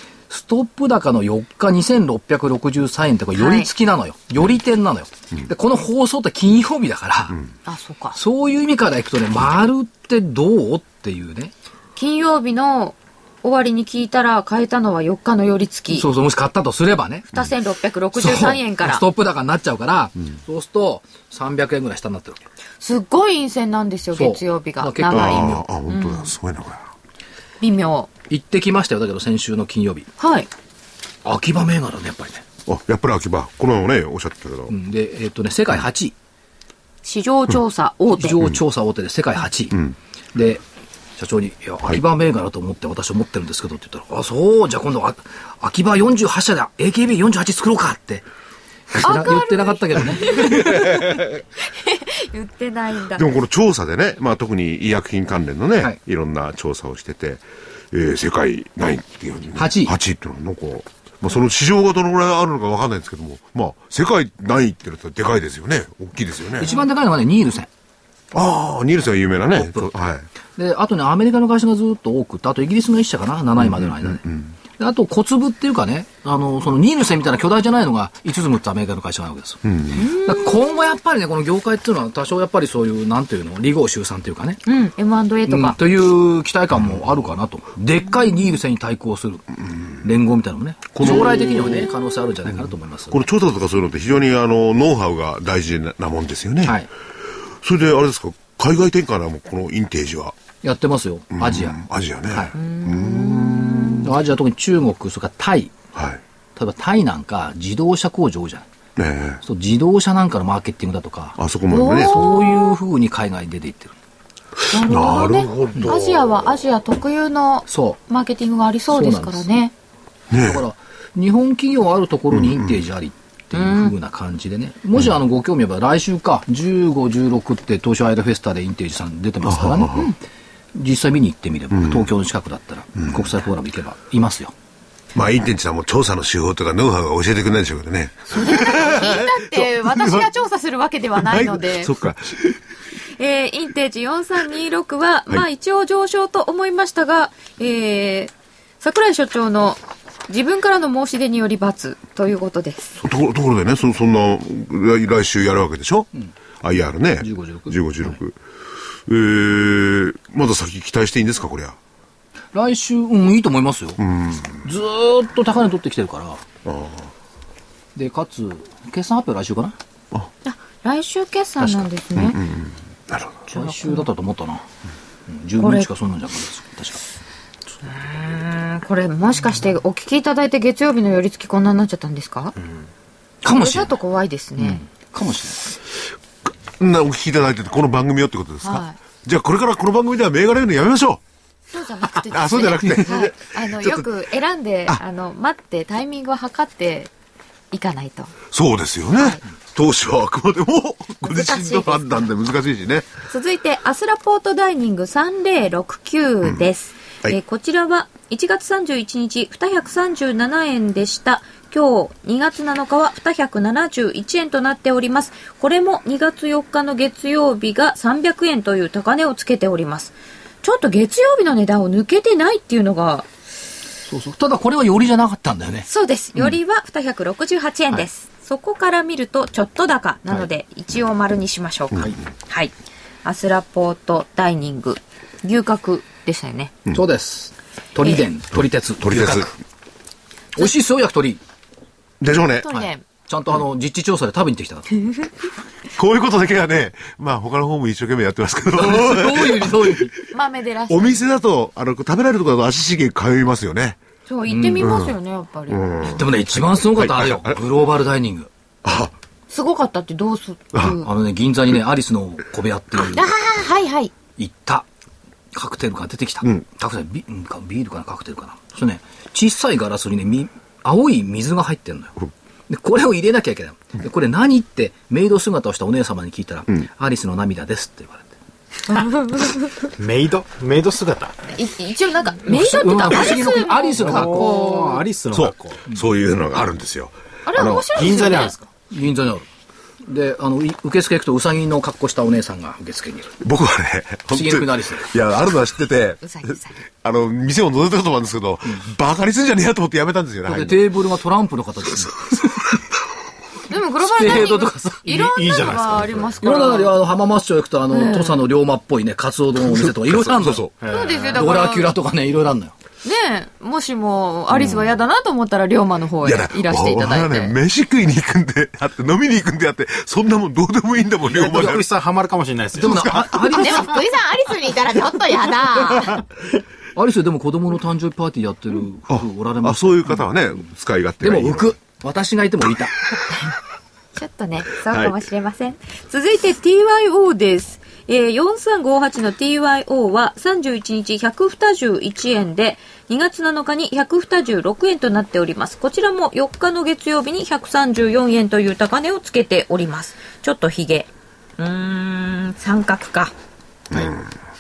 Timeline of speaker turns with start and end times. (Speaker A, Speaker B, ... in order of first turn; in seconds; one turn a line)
Speaker A: 0.3-7.4
Speaker B: 3.3-3.7
Speaker B: 7.7-8.2
Speaker A: 8.1-11.5
Speaker B: 11.9-16.1
Speaker A: 15.9-17.3
Speaker B: 17.3-19.0
Speaker A: 18.1-22.4
Speaker B: 22.8-26.3
Speaker A: 24.1-25.6
Speaker C: 25.1-26.8
Speaker B: 27.6-28.1
Speaker A: 28.3-30.1
Speaker B: 30.2-30.5
Speaker A: 31.2-32.4
Speaker C: 32.7-34.7
Speaker A: 34.7-36.1
Speaker B: 37.0-38.4
Speaker A: 38.1-39.8
Speaker A: 40.3-40.6
Speaker A: 41.2-48.2
Speaker A: 48.9-50.9
Speaker B: 49.0-53.2
Speaker C: 50.9-51.2
Speaker C: 53.1-66.7
Speaker A: 59.6-59.9
Speaker A: 66.6-67.7
Speaker C: 68.3-70.3
Speaker A: 69.5-69.9
Speaker A: 70.5-74.2
Speaker C: 73.6-74.5
Speaker A: 74.8-84.6
Speaker C: 79.7-80.0
Speaker B: 80.0-81.0
Speaker B: 84.7-85.8
Speaker A: 85.5-89.5
Speaker A: 90.0-93.2
Speaker C: 90.9-91.5
Speaker B: 91.0-91.7
Speaker C: 93.1-96.8
Speaker A: 96.6-96.9
Speaker C: 97.6-100.4
Speaker A: 100.6-102.5
Speaker C: 101.4-104.0
Speaker B: 102.5-104.1
Speaker A: 104.0-105.7
Speaker C: 105.9-106.2
Speaker A: 106.5-108.7
Speaker C: 109.0-109.4
Speaker A: 109.4-111.4
Speaker C: 111.4-112.2
Speaker B: 111.7-112.8
Speaker A: 112.0-113.9
Speaker B: 114.7-119.7
Speaker C: 114.7-116.4
Speaker A: 117.7-118.0
Speaker A: 118.9-119.5
Speaker C: 120.3-120.6
Speaker A: 120.4-130.1
Speaker C: 122.3-122.8
Speaker B: 123.5-123.9
Speaker C: 129.4-130.1
Speaker A: 130.7-134.5
Speaker C: 135.1-140.2
Speaker B: 138.3-141.9
Speaker C: 141.2-142.6
Speaker B: 143.2-153.0
Speaker C: 153.0-156.1
Speaker C: 156.6-158.4
Speaker A: 157.2-158.2
Speaker C: 159.1-161.8
Speaker A: 162.5-164.0
Speaker C: 164.0-164.6
Speaker A: 164.6-166.4
Speaker C: 166.6-167.1
Speaker A: 167.9-169.8
Speaker B: 170.4-172.4
Speaker A: 171.6-171.9
Speaker C: 172.2-173.3
Speaker B: 173.5-174.1
Speaker A: 173.5-174.6
Speaker A: 175.3-177.0
Speaker B: 175.6-175.9
Speaker B: 177.8-182.5
Speaker A: 183.4-184.0
Speaker B: 183.5-184.8
Speaker A: 184.6-185.8
Speaker C: 186.8-191.2
Speaker B: 188.6-189.0
Speaker B: 191.7-197.1
Speaker C: 192.1-194.1
Speaker B: 197.7-198.3
Speaker C: 198.5-203.1
Speaker B: 201.2-202.2
Speaker B: 203.3-223.3
Speaker A: 224.1-225.9
Speaker B: 225.9-232.7
Speaker B: 233.2-236.8
Speaker A: 236.9-239.5
Speaker C: 239.0-239.5
Speaker A: 240.5-241.4
Speaker C: 242.2-242.7
Speaker B: 242.6-243.0
Speaker A: 242.7-244.9
Speaker C: 245.9-249.9
Speaker A: 248.7-250.1
Speaker B: 250.3-251.2
Speaker C: 250.9-254.0
Speaker B: 254.3-256.0
Speaker A: 254.4-254.9
Speaker C: 254.8-255.1
Speaker C: 255.7-257.6
Speaker A: 256.1-258.5
Speaker C: 258.8-259.1
Speaker B: 259.5-261.1
Speaker A: 261.0-263.4
Speaker B: 263.0-264.1
Speaker A: 264.4-264.9
Speaker A: 265.5-278.3
Speaker B: 278.9-279.9
Speaker D: 280.0-281.4
Speaker B: 281.4-285.0
Speaker A: 282.4-284.6
Speaker D: 284.0-285.8
Speaker C: 285.3-288.1
Speaker B: 287.4-288.5
Speaker D: 287.9-288.7
Speaker A: 288.9-289.5
Speaker A: 290.0-293.4
Speaker C: 293.4-300.8
Speaker A: 294.3-295.1
Speaker B: 296.2-296.8
Speaker A: 300.4-302.7
Speaker B: 303.7-306.9
Speaker A: 304.0-305.3
Speaker D: 305.0-306.4
Speaker A: 306.4-312.7
Speaker B: 307.9-308.4
Speaker C: 309.6-310.7
Speaker D: 310.8-311.5
Speaker B: 310.9-311.9
Speaker B: 313.0-317.6
Speaker C: 314.5-314.9
Speaker C: 316.2-321.9
Speaker D: 321.3-323.1
Speaker A: 321.5-321.8
Speaker A: 322.8-324.0
Speaker C: 322.8-323.6
Speaker B: 323.5-326.2
Speaker A: 326.9-330.2
Speaker C: 329.1-331.7
Speaker A: 331.2-332.9
Speaker B: 334.1-353.3
Speaker C: 334.9-335.1